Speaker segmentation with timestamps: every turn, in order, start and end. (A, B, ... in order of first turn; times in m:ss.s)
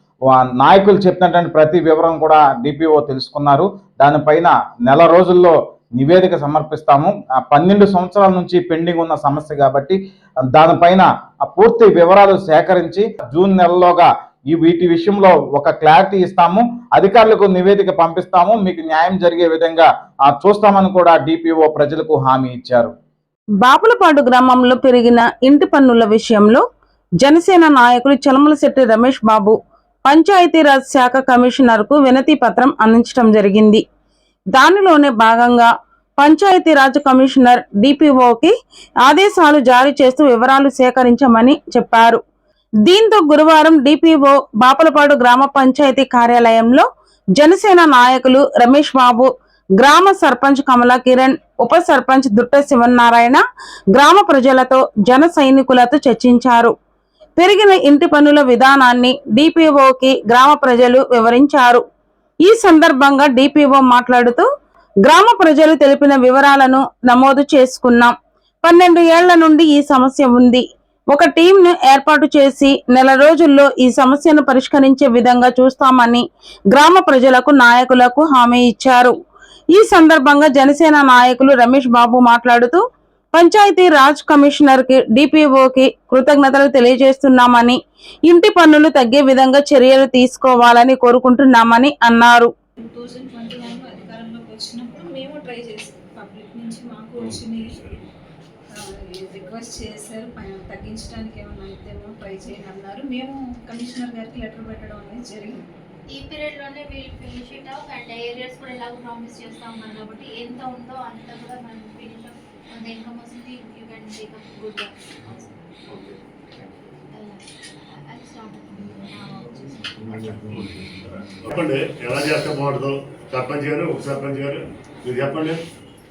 0:00.3-0:10.0 A
0:10.5-0:22.9 A
0:23.6-0:26.6 B
0:27.2-0:33.8 B
0:34.5-0:42.2 B
0:42.8-0:46.9 B
0:47.4-0:53.4 B
0:53.9-0:56.7 B
0:57.4-1:01.8 B
1:02.4-1:04.5 B
1:05.0-1:19.1 B
1:19.7-1:32.5 B
1:32.8-1:37.8 C
1:37.2-1:38.0 D
1:38.7-1:45.7 C
1:46.1-1:55.5 E
1:57.1-2:00.1 E
2:00.1-2:05.6 D